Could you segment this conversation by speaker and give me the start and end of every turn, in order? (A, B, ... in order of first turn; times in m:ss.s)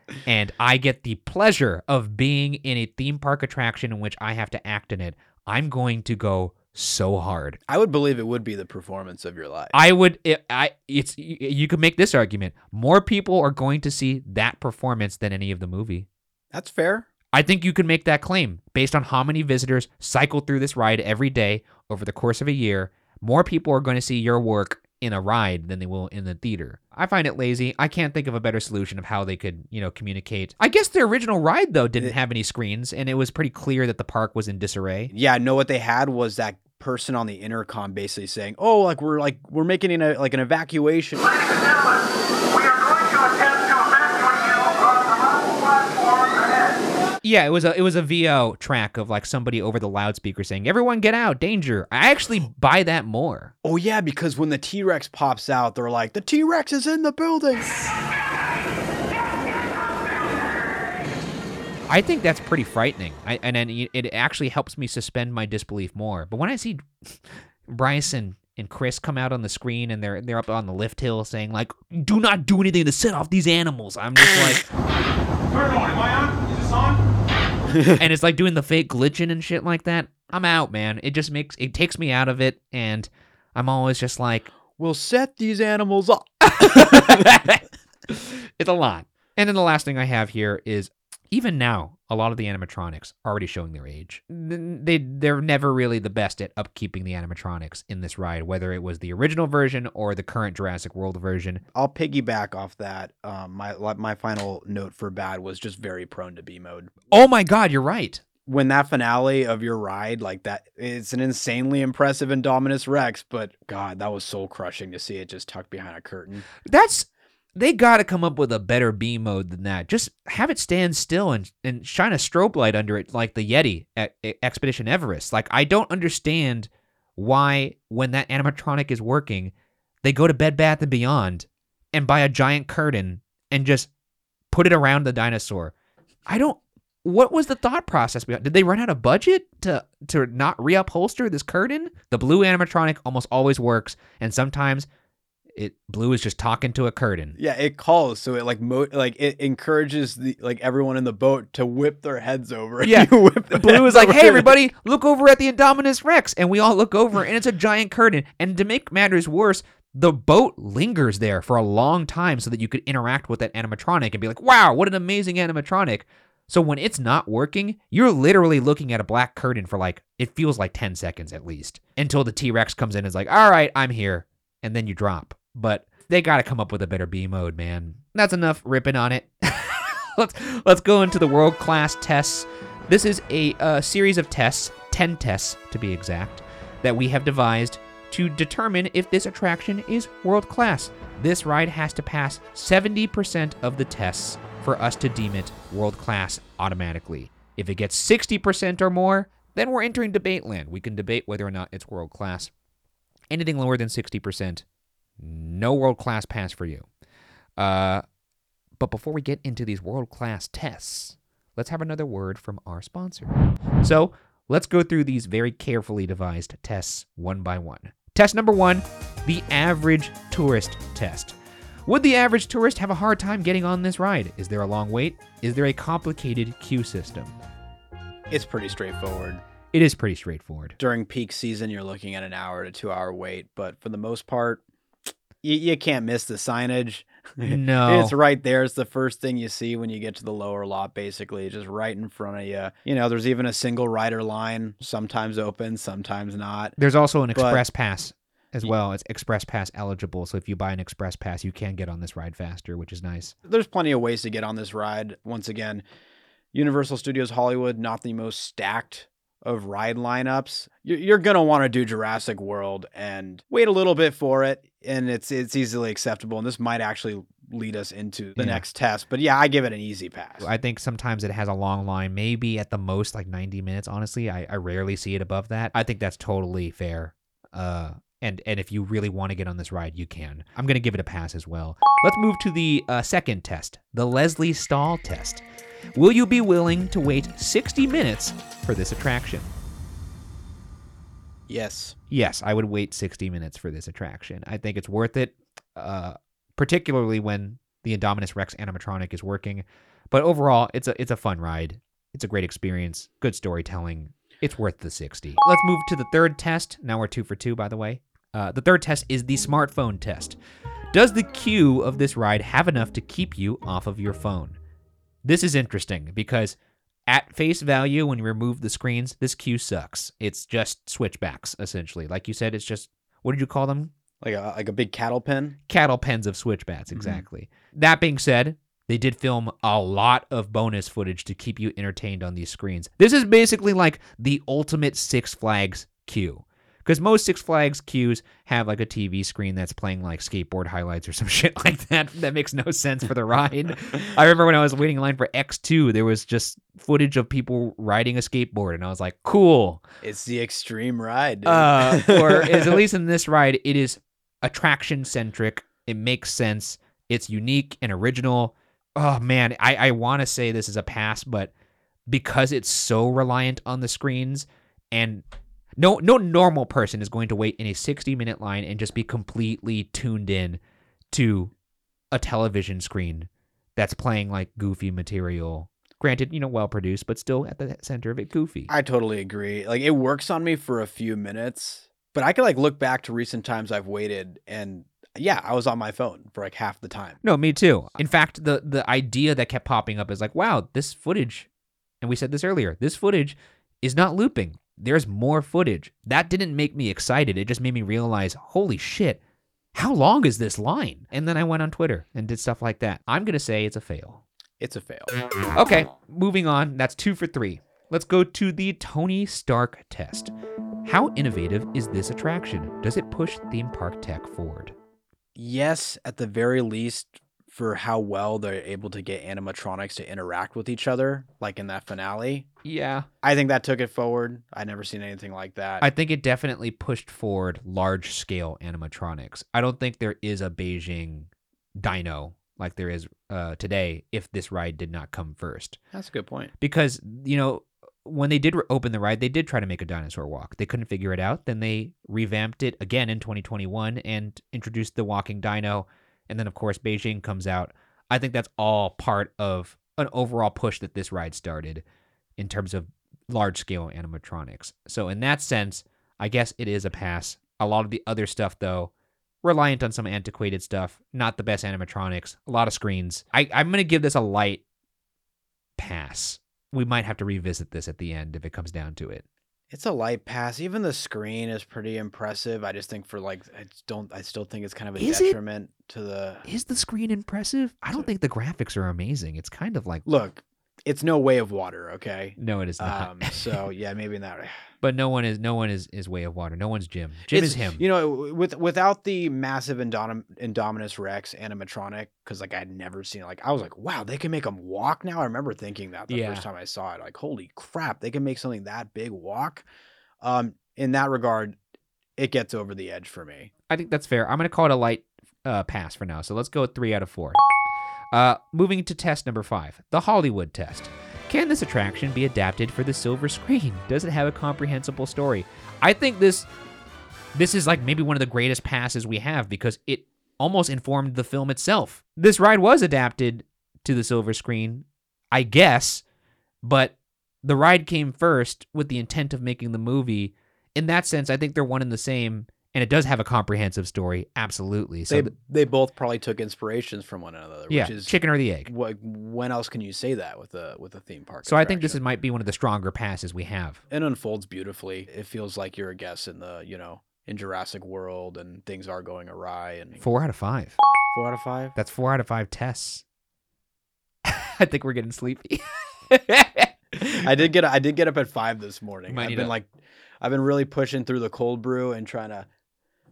0:00.2-0:07.6 A
0:07.7-0:09.7 B
0:09.7-0:16.1 A
0:16.5-0:17.1 B
0:17.3-0:35.1 A
0:35.1-0:41.3 B
0:41.4-0:41.9 C
0:42.5-0:46.8 C
0:47.2-0:53.5 A
0:53.6-0:57.7 B
1:01.9-1:06.9 A
1:07.7-1:14.7 A
1:15.5-1:17.0 C
1:17.9-1:24.5 A
1:24.8-1:27.4 B
1:26.4-1:41.6 A
1:41.7-1:47.0 B
1:47.1-1:48.2 A
1:48.5-1:56.4 B
1:56.6-2:09.5 A
2:10.0-2:13.9 A
2:14.5-2:15.7 A
2:16.3-2:24.9 A
2:25.6-2:27.4 A
2:27.4-2:34.6 B
2:32.8-3:22.5 A
3:23.3-3:24.6 A
3:25.2-3:26.8 A
3:27.6-3:28.0 A
3:28.8-3:41.3 A
3:41.8-3:47.3 A
3:48.3-3:49.4 B
3:49.7-3:50.8 A
3:50.8-3:54.6 B
3:55.4-4:06.8 B
3:57.4-3:58.1 A
4:06.8-4:13.3 A
4:07.3-4:07.6 B
4:13.4-4:15.8 B
4:16.5-4:30.5 B
4:28.4-4:28.6 A
4:30.4-4:45.4 A
4:46.0-4:49.5 A
4:51.5-4:52.0 B
4:52.1-5:10.4 A
5:10.9-5:14.6 A
5:15.2-5:16.6 A
5:17.1-5:23.9 A
5:24.2-5:25.6 B
5:25.7-5:49.8 A
5:26.9-5:27.2 B
5:50.0-5:52.8 B
5:51.4-6:01.5 A
6:02.1-6:05.2 A
6:05.8-6:10.6 A
6:11.1-6:11.5 A
6:12.1-6:18.7 A
6:18.7-6:27.2 B
6:27.2-6:31.5 A
6:32.0-6:39.2 A
6:39.7-6:44.2 A
6:44.6-6:45.1 B
6:45.5-6:50.3 A
6:50.8-6:54.7 A
6:55.4-7:02.5 B
7:02.6-7:03.1 A
7:03.2-7:05.8 B
7:05.8-7:15.8 A
7:15.9-7:16.5 B
7:16.6-7:31.8 A
7:32.4-7:38.9 A
7:39.4-7:44.6 A
7:45.8-7:49.2 A
7:49.7-7:56.4 B
7:55.0-7:55.4 A
7:56.4-8:00.0 A
8:00.0-8:04.5 B
8:02.4-8:03.6 A
8:04.8-8:07.8 A
8:07.3-8:19.6 B
8:16.1-8:16.4 A
8:20.2-8:21.6 B
8:22.2-8:23.5 B
8:23.7-8:27.4 A
8:28.1-8:36.5 A
8:37.3-8:46.0 A
8:46.6-8:55.3 A
8:55.1-8:58.1 B
8:57.7-8:58.7 A
8:58.6-9:02.0 B
9:01.4-9:03.8 A
9:03.9-9:10.0 B
9:10.0-9:10.8 A
9:11.1-9:11.7 B
9:11.7-9:13.0 A
9:14.2-9:17.3 A
9:17.2-9:19.7 B
9:19.1-9:19.5 A
9:20.2-9:22.5 B